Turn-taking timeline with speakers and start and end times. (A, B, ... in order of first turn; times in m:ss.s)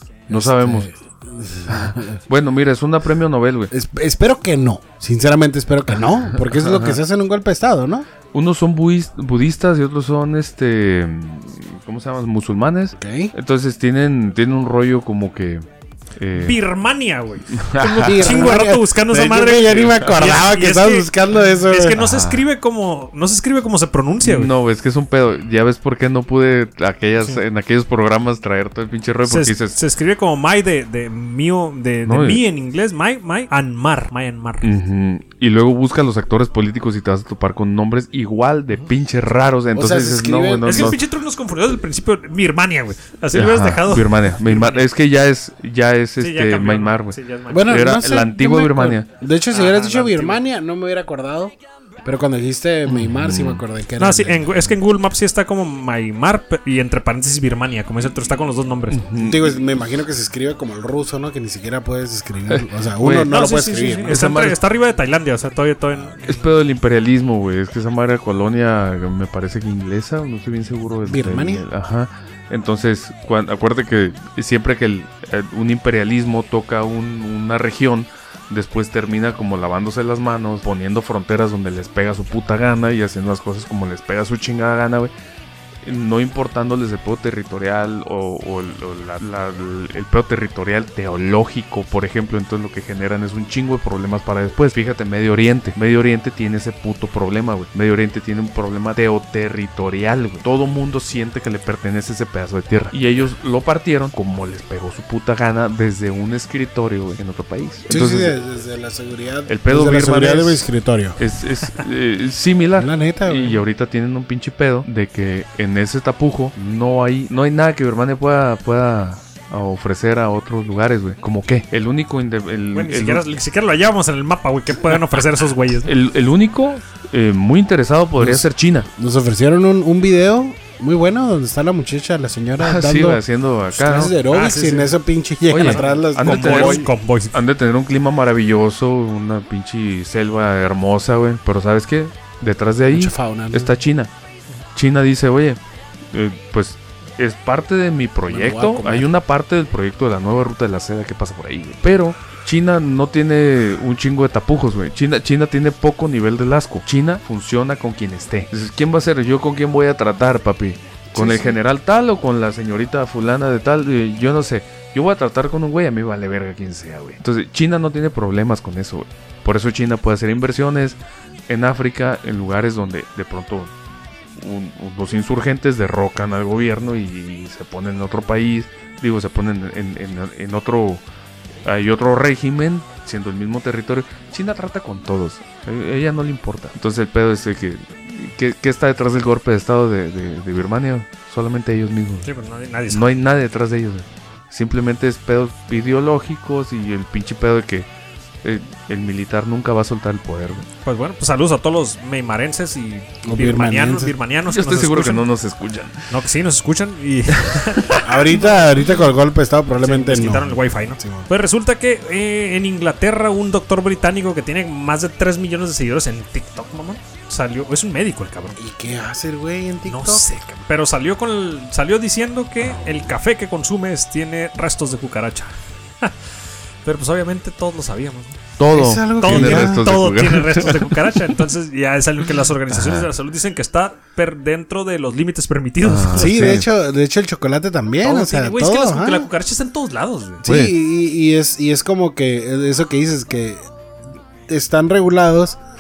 0:00.3-0:02.2 A
0:00.3-0:00.9 B
0:01.7-0:03.7 B
0:03.7-0:08.0 A
0:06.0-0:07.0 B
0:08.3-0:16.6 B
0:13.0-0:13.3 A
0:16.3-0:24.5 C
0:17.5-0:18.6 B
0:18.0-0:22.0 A
0:22.0-0:22.4 B
0:24.2-0:29.8 B
0:29.2-0:34.7 C
0:32.0-0:32.4 B
0:34.6-0:41.0 B
0:39.7-0:41.0 A
0:40.6-0:44.8 C
0:43.3-0:49.1 B
0:46.2-0:47.9 C
0:47.5-0:54.5 A
0:49.5-0:50.4 C
0:52.8-0:53.6 B
0:54.0-0:59.0 C
0:58.9-0:59.6 B
0:59.2-1:04.2 A
1:02.5-1:03.3 B
1:03.3-1:06.5 C
1:04.0-1:04.6 B
1:06.2-1:25.1 B
1:11.0-1:11.6 A
1:25.8-1:48.3 B
1:47.9-1:51.2 A
1:49.5-2:03.2 B
1:52.8-1:53.6 A
2:02.7-2:05.9 C
2:05.8-2:08.9 B
2:08.2-2:13.2 A
2:12.6-2:14.1 B
2:13.7-2:16.9 A
2:14.2-2:14.9 C
2:15.5-2:24.1 B
2:15.6-2:17.4 C
2:22.9-2:23.7 A
2:24.7-2:25.6 B
2:26.1-2:53.7 B
2:28.2-2:29.1 A
2:41.1-2:41.6 A
2:54.4-3:01.0 B
3:01.6-3:12.3 B
3:12.2-3:13.1 C
3:12.9-3:17.9 B
3:18.4-3:20.6 B
3:20.8-3:25.2 C
3:23.2-3:24.1 A
3:24.4-3:26.1 B
3:26.1-3:28.8 C
3:27.4-3:28.4 B
3:28.0-3:31.3 A
3:29.8-3:38.6 C
3:38.6-3:40.3 A
3:39.8-3:46.2 C
3:42.6-3:43.1 B
3:46.8-3:48.4 C
3:48.6-3:51.4 B
3:48.7-3:49.8 A
3:49.2-3:56.6 C
3:52.7-3:53.1 B
3:55.8-3:56.7 B
3:56.1-3:59.3 A
3:58.0-4:00.4 C
4:00.4-4:03.6 A
4:00.4-4:00.7 B
4:04.5-4:05.6 A